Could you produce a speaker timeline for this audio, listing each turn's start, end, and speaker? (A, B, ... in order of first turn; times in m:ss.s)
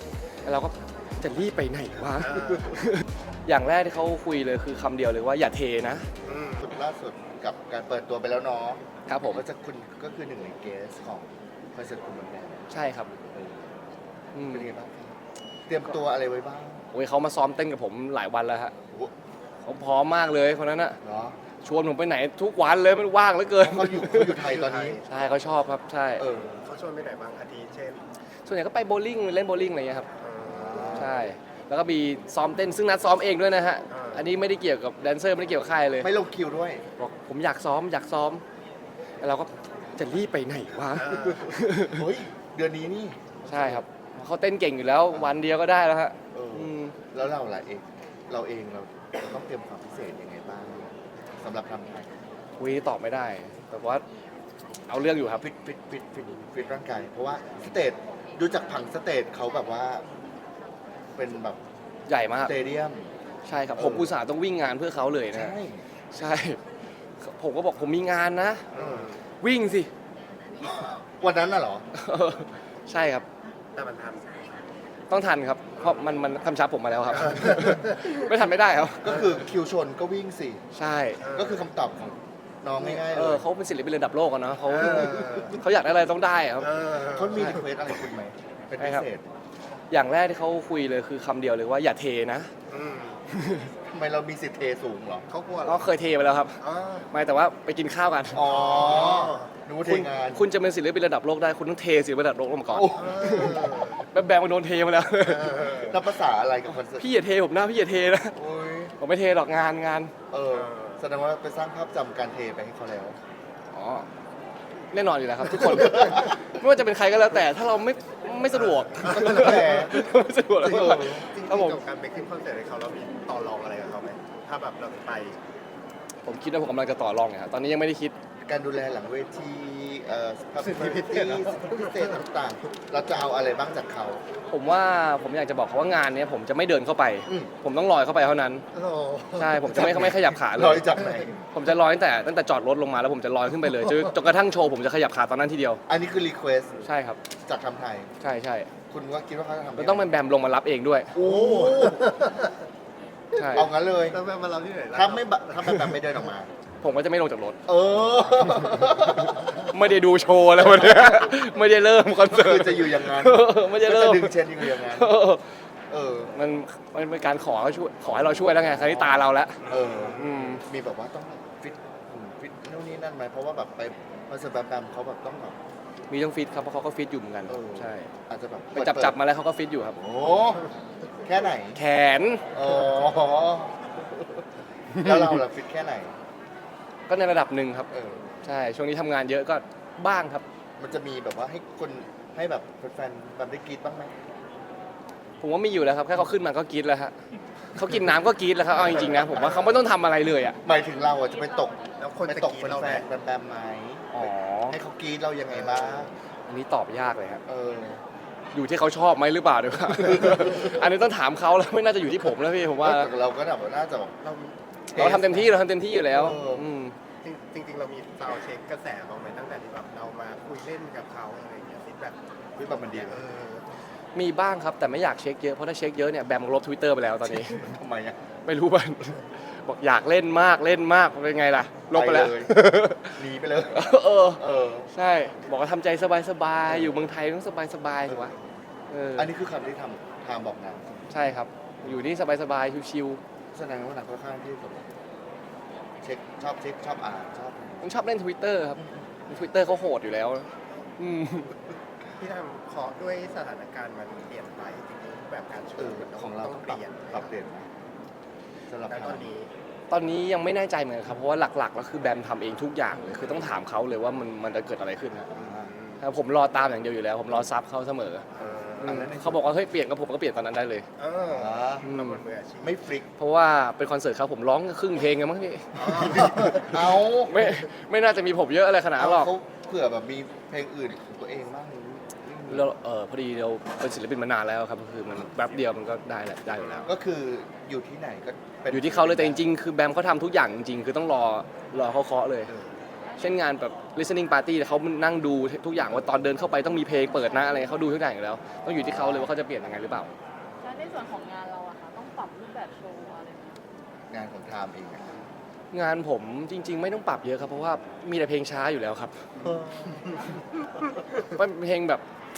0:00.4-0:06.1 A
0:02.2-0:02.7 B
0:06.2-0:06.7 B
0:06.6-0:13.7 C
0:09.1-0:09.4 A
0:12.7-0:13.1 A
0:14.3-0:14.7 A
0:14.4-0:16.8 C
0:16.9-0:18.7 A
0:19.6-0:21.0 A
0:21.0-0:21.4 C
0:21.6-0:24.4 A
0:23.6-0:25.0 C
0:24.2-0:25.5 B
0:25.1-0:26.2 A
0:26.2-0:26.6 C
0:26.6-0:28.0 B
0:28.4-0:30.1 A
0:30.2-0:31.2 B
0:30.4-0:31.2 C
0:30.9-0:36.1 A
0:33.9-0:34.3 B
0:36.0-0:36.8 C
0:37.0-0:38.4 A
0:39.2-0:42.0 A
0:40.9-0:41.5 B
0:41.9-0:43.8 C
0:43.5-0:46.9 A
0:46.3-0:52.2 C
0:52.6-0:54.0 A
0:54.9-0:55.4 A
0:55.4-1:00.0 C
1:01.1-1:01.6 C
1:02.1-1:02.5 A
1:02.4-1:03.1 C
1:03.4-1:05.6 A
1:03.8-1:04.2 C
1:05.3-1:05.8 C
1:06.1-1:06.6 A
1:07.2-1:08.6 A
1:08.7-1:09.1 C
1:08.7-1:09.2 B
1:09.4-1:09.9 A
1:10.6-1:11.8 C
1:11.9-1:13.2 A
1:13.8-1:14.2 B
1:15.1-1:19.2 A
1:17.4-1:17.9 B
1:19.0-1:20.6 C
1:20.7-1:21.2 A
1:21.2-1:21.7 B
1:21.3-1:23.4 C
1:22.8-1:26.7 A
1:24.7-1:25.6 B
1:26.6-1:27.6 B
1:27.0-1:29.3 C
1:28.8-1:29.1 A
1:29.9-1:32.5 A
1:32.7-1:33.2 B
1:33.3-1:33.7 A
1:33.8-1:35.3 C
1:35.3-1:35.9 B
1:35.6-1:38.4 A
1:36.6-1:37.1 B
1:38.3-1:40.5 C
1:38.4-1:39.5 B
1:39.8-1:45.8 A
1:42.7-1:43.6 C
1:43.0-1:44.0 B
1:45.2-1:45.9 B
1:45.7-1:47.1 C
1:46.9-1:48.4 A
1:48.4-1:49.0 C
1:49.0-1:50.1 A
1:50.3-1:53.2 C
1:50.5-1:51.0 B
1:53.7-1:54.1 A
1:54.9-2:01.8 A
1:59.0-1:59.8 B
1:59.0-2:00.0 C
2:00.6-2:05.4 B
2:00.6-2:01.3 C
2:06.2-2:08.2 A
2:08.4-2:14.2 C
2:10.6-2:12.2 B
2:14.5-2:18.6 A
2:17.3-2:17.5 C
2:18.7-2:20.2 B
2:19.4-2:20.9 A
2:19.8-2:21.4 C
2:21.5-2:25.8 A
2:25.9-2:26.9 C
2:26.8-2:27.2 A
2:27.4-2:28.1 C
2:28.2-2:28.7 A
2:28.9-2:30.1 C
2:29.8-2:31.1 A
2:31.1-2:32.1 C
2:31.2-2:32.6 B
2:33.4-2:33.7 A
2:33.4-2:34.2 C
2:34.1-2:36.0 B
2:34.9-2:36.5 C
2:36.8-2:37.6 A
2:37.6-2:39.6 C
2:39.5-2:45.4 A
2:40.6-2:41.1 C
2:42.3-2:45.1 C
2:45.9-2:46.3 C
2:46.3-2:50.6 A
2:48.0-2:55.6 C
2:56.1-2:58.1 A
2:57.5-2:59.2 C
2:58.7-3:00.0 A
3:00.0-3:00.6 C
3:01.2-3:01.8 C
3:01.7-3:02.4 A
3:02.5-3:03.8 C
3:04.9-3:06.1 C
3:07.1-3:07.9 A
3:07.9-3:08.4 C
3:08.4-3:10.4 A
3:10.8-3:14.1 C
3:15.4-3:17.1 A
3:17.7-3:20.6 A
3:18.7-3:19.8 C
3:20.6-3:26.1 C
3:22.0-3:23.1 B
3:24.1-3:24.8 A
3:26.5-3:27.4 A
3:27.4-3:28.0 C
3:28.5-3:33.1 A
3:32.8-3:36.7 C
3:34.9-3:36.9 A
3:37.2-3:42.2 B
3:42.6-3:43.2 C
3:42.9-3:43.6 B
3:44.1-3:47.7 A
3:47.2-3:48.2 C
3:48.4-3:53.2 A
3:51.9-3:54.9 C
3:53.7-3:58.3 A
3:56.7-3:57.0 C
3:58.1-3:58.4 C
3:58.9-3:59.3 A
3:59.2-4:02.0 C
4:01.1-4:03.2 A
4:03.5-4:04.9 C
4:06.0-4:08.1 C
4:07.8-4:11.5 A
4:08.8-4:09.0 C
4:12.2-4:17.3 B
4:15.8-4:17.7 C
4:18.7-4:19.3 C
4:18.9-4:19.5 B
4:19.9-4:25.3 A
4:25.3-4:25.7 C
4:25.3-4:26.0 B
4:26.0-4:28.2 A
4:28.4-4:29.1 B
4:28.4-4:29.4 C
4:28.8-4:30.8 A
4:31.0-4:32.8 B
4:31.3-4:31.9 C
4:31.8-4:32.2 A
4:32.6-4:33.1 C
4:33.2-4:39.3 A
4:35.7-4:36.6 B
4:36.5-4:37.6 C
4:39.0-4:42.7 C
4:42.5-4:46.9 A
4:46.8-4:49.5 C
4:48.7-4:52.5 A
4:53.2-5:00.1 A
4:58.7-4:59.3 C
5:00.6-5:03.6 D
5:04.1-5:05.3 C
5:05.7-5:09.5 A
5:09.4-5:10.1 B
5:09.6-5:09.9 C
5:11.2-5:12.0 A